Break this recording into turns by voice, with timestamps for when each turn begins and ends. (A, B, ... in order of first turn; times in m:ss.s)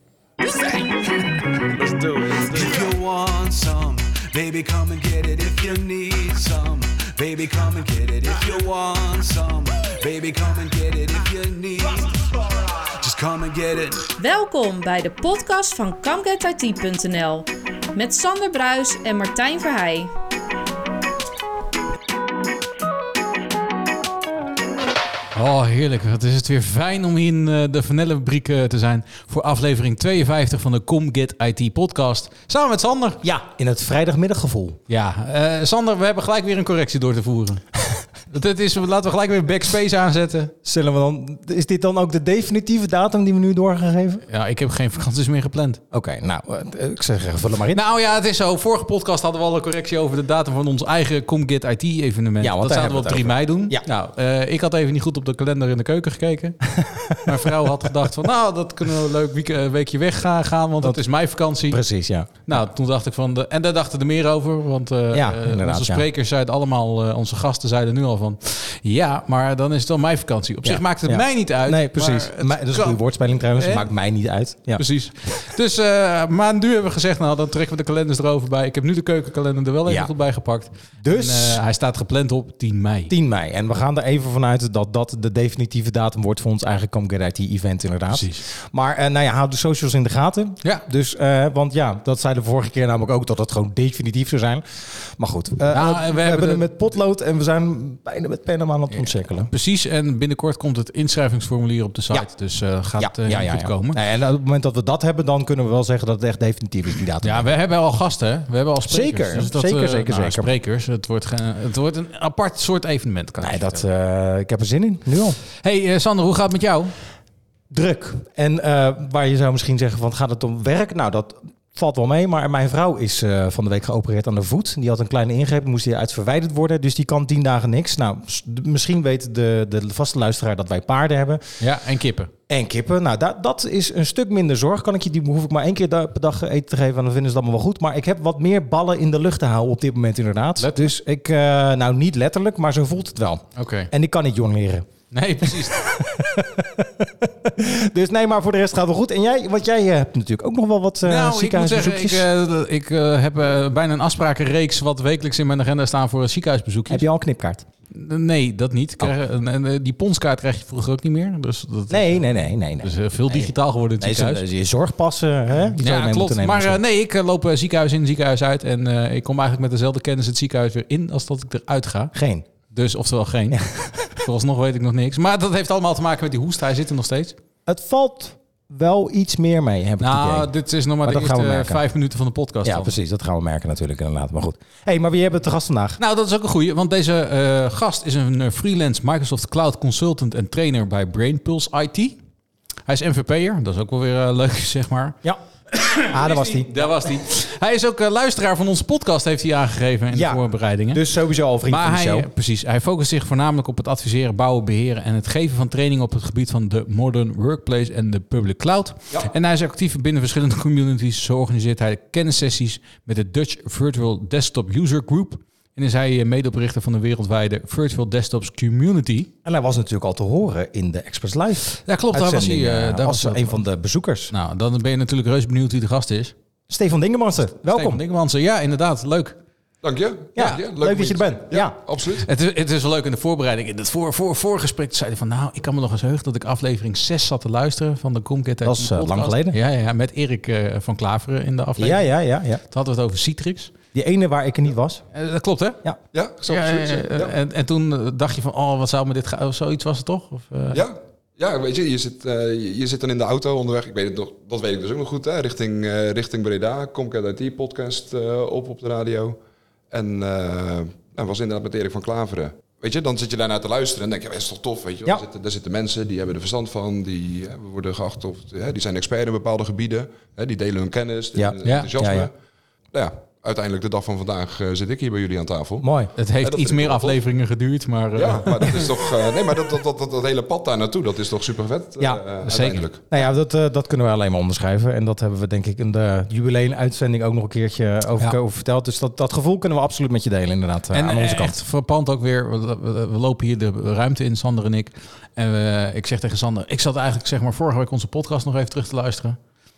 0:01.8-0:12.3 A
0:13.0-0:14.1 A
0:14.2-0:20.1 B
0:25.4-0:33.2 C
0:33.2-0:34.8 D
0:34.9-0:40.5 C
0:40.6-0:44.2 D
0:44.3-0:45.8 C
0:45.9-0:47.8 D
0:47.7-1:13.9 C
0:52.4-0:53.8 D
0:56.8-0:57.3 D
1:00.8-1:02.6 D
1:05.1-1:06.0 D
1:10.6-1:14.8 D
1:14.8-1:23.1 C
1:19.9-1:20.1 D
1:21.0-1:21.6 D
1:23.1-1:39.5 D
1:28.1-1:28.4 C
1:35.7-1:36.6 C
1:39.0-1:44.0 C
1:43.0-1:47.5 D
1:47.2-1:53.8 C
1:48.9-1:50.5 D
1:53.4-1:55.4 D
1:55.5-1:57.0 C
1:57.7-2:11.6 D
2:11.6-2:12.3 C
2:12.5-2:24.9 D
2:20.6-2:20.9 C
2:23.6-2:23.9 C
2:25.1-2:26.1 C
2:25.4-2:32.2 D
2:31.0-2:37.0 C
2:36.9-2:37.7 D
2:37.9-2:44.4 C
2:41.9-2:46.8 D
2:45.8-2:52.1 C
2:52.1-2:52.5 D
2:52.7-2:57.4 C
2:53.6-2:54.1 D
2:57.7-3:00.5 D
3:00.0-3:03.0 C
3:01.0-3:01.8 D
3:02.6-3:06.0 D
3:06.0-3:12.2 C
3:12.9-3:15.2 C
3:15.7-3:21.0 C
3:16.1-3:16.7 D
3:20.1-3:22.3 D
3:21.7-3:39.3 C
3:39.4-3:44.3 D
3:41.8-3:43.6 C
3:44.3-3:46.3 C
3:46.7-3:48.0 D
3:47.6-3:49.4 C
3:49.8-3:52.3 E
3:50.4-3:51.8 D
3:52.2-4:02.1 C
3:58.6-3:59.6 D
4:01.8-4:02.6 D
4:02.6-4:03.7 C
4:03.9-4:05.0 D
4:05.1-4:05.8 C
4:06.1-4:07.4 E
4:06.5-4:10.8 C
4:10.7-4:19.4 E
4:19.9-4:32.3 E
4:31.4-4:32.3 D
4:31.6-4:31.9 C
4:32.9-4:35.9 E
4:35.8-4:36.1 D
4:36.2-4:38.9 C
4:36.4-4:37.2 E
4:38.2-4:43.0 E
4:42.4-4:42.8 C
4:43.1-4:51.6 D
4:50.9-4:59.4 C